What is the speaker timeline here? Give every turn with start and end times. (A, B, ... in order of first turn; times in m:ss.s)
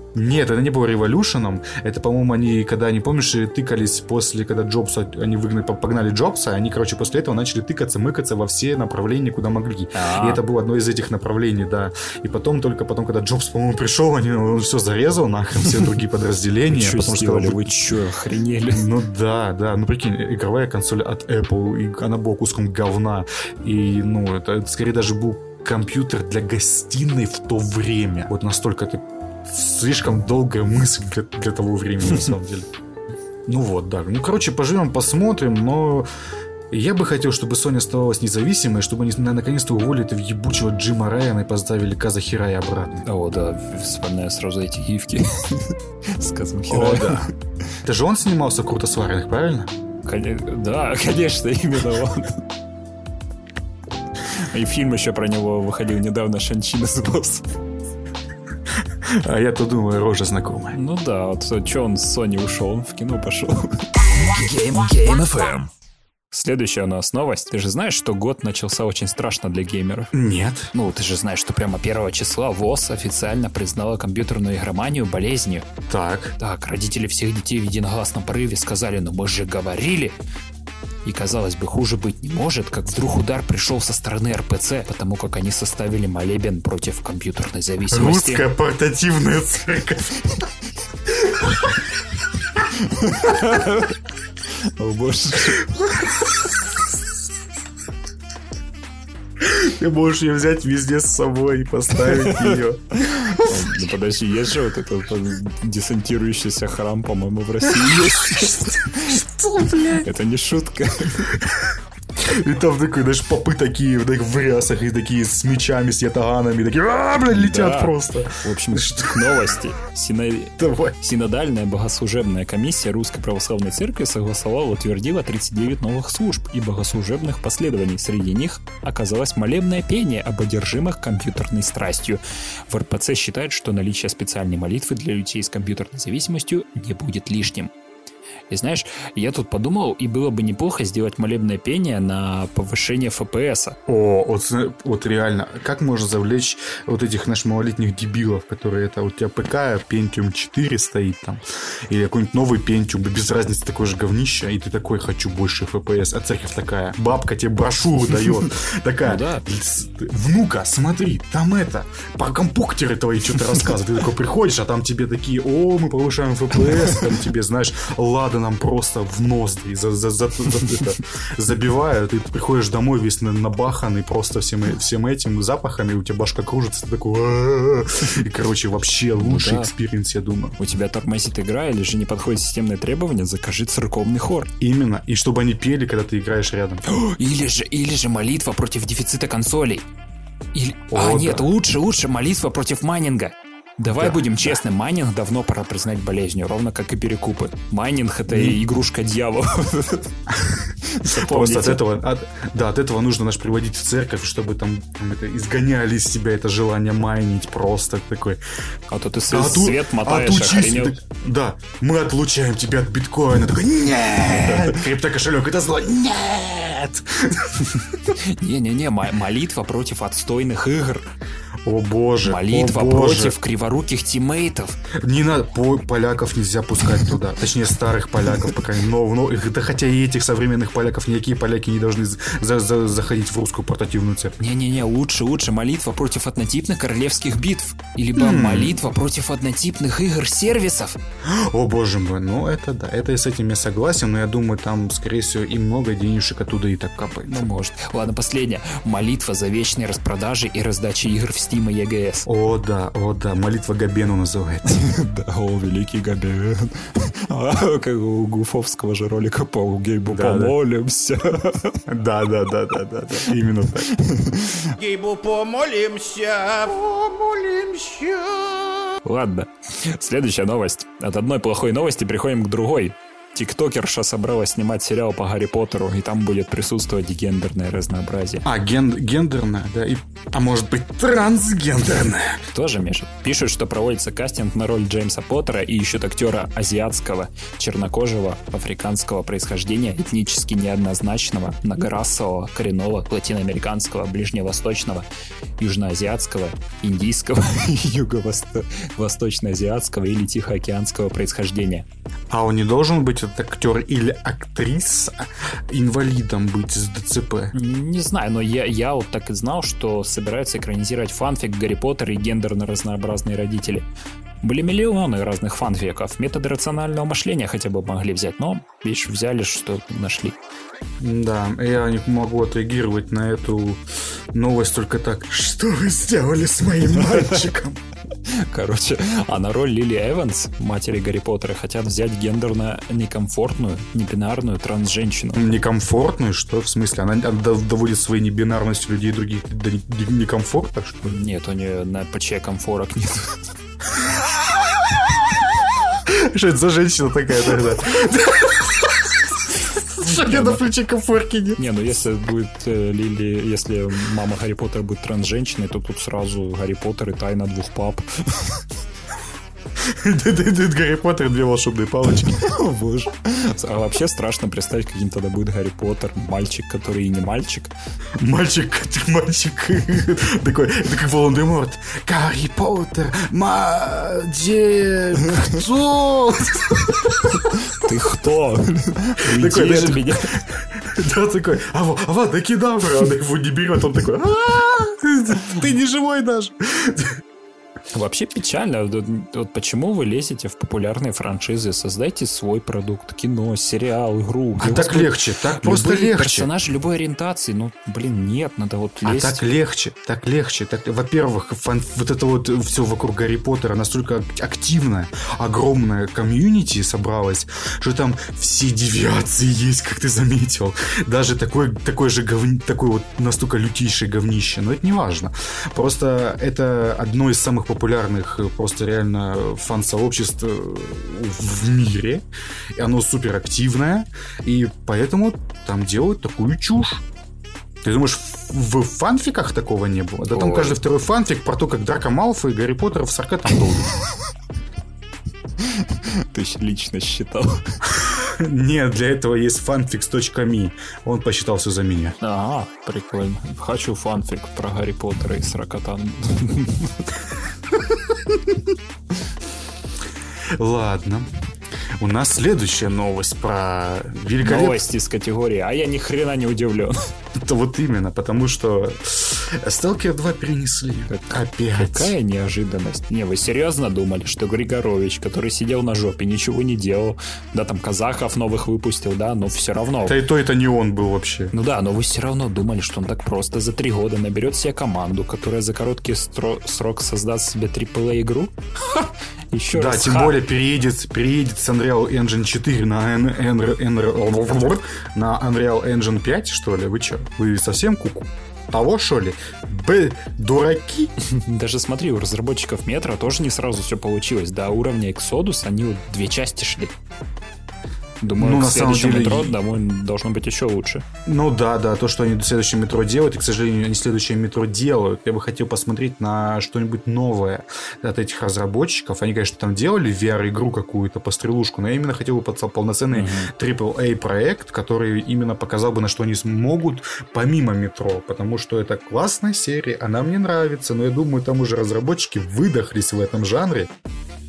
0:00.1-0:17.7 A
0:09.9-0:10.4 B
0:16.7-0:18.9 B
0:18.7-0:32.7 A
0:33.5-0:36.1 A
0:36.7-0:43.1 A
0:43.0-0:47.3 B
0:46.7-0:47.3 A
0:47.8-0:49.7 A
0:50.0-0:52.4 B
0:54.3-0:57.5 B
0:59.0-1:00.8 A
1:00.7-1:05.7 B
1:06.3-1:10.1 B
1:10.1-1:10.7 A
1:10.7-1:15.7 B
1:15.9-1:16.4 A
1:16.4-1:20.2 B
1:21.0-1:28.5 B
1:27.9-1:30.4 A
1:31.3-1:31.7 A
1:32.8-1:34.0 B
1:34.5-1:35.7 B
1:35.8-1:36.1 A
1:39.4-1:43.6 A
1:42.0-1:49.2 B
1:47.7-1:50.1 A
1:49.9-1:51.3 B
1:51.3-1:59.4 A
1:57.3-2:17.7 B
2:00.6-2:01.0 A
2:18.5-2:23.8 B
2:23.9-3:00.6 A
2:39.0-2:39.5 B
2:59.2-2:59.7 B
3:00.6-3:04.5 B
3:04.6-3:06.8 A
3:06.9-3:09.9 B
3:10.5-3:20.2 B
3:10.9-3:11.5 A
3:13.8-3:14.6 A
3:18.3-3:18.6 A
3:20.8-3:21.8 B
3:21.0-3:28.4 A
3:28.9-3:31.0 B
3:29.3-3:37.6 A
3:34.3-3:34.8 B
3:38.1-3:41.1 B
3:41.6-3:43.4 A
3:42.2-3:44.8 B
3:45.0-3:54.4 A
3:54.4-4:01.0 B
3:58.2-3:58.8 A
4:01.2-4:07.4 A
4:07.3-4:12.3 B
4:12.3-4:14.8 A
4:14.7-4:21.8 B
4:20.1-4:20.6 A
4:21.9-4:23.9 A
4:24.0-4:24.7 B
4:24.8-4:28.9 C
4:29.0-4:38.5 B
4:38.4-4:42.4 A
4:42.5-4:55.1 B
4:55.6-5:01.9 B
5:02.3-5:07.5 A
5:07.5-5:13.9 B
5:14.4-5:20.4 B
5:21.0-5:23.8 A
5:24.3-5:27.8 A
5:27.1-5:27.4 B
5:28.2-5:35.5 B
5:35.4-5:41.2 A
5:41.1-5:43.4 B
5:46.0-5:51.6 A
5:50.3-5:50.6 B
5:51.6-5:58.6 B
5:59.8-6:02.5 A
6:02.3-6:07.7 B
6:08.2-6:17.5 A
6:17.6-6:20.4 B
6:19.2-6:27.2 A
6:27.9-6:39.5 B
6:34.6-6:36.5 A
6:39.0-7:07.0 A
7:07.8-7:14.0 A
7:10.3-7:10.8 B
7:15.6-7:17.8 B
7:18.0-7:22.2 A
7:22.2-7:27.1 B
7:30.5-7:31.3 A
7:32.0-7:34.8 A
7:34.4-7:37.0 B
7:37.4-7:42.1 A
7:41.1-7:50.2 B
7:50.0-7:51.5 A
7:51.5-8:00.4 B
7:59.7-8:11.1 A
8:11.3-8:17.0 B
8:18.2-8:21.0 B
8:18.4-8:19.6 A
8:21.3-8:43.9 A
8:33.1-8:33.5 B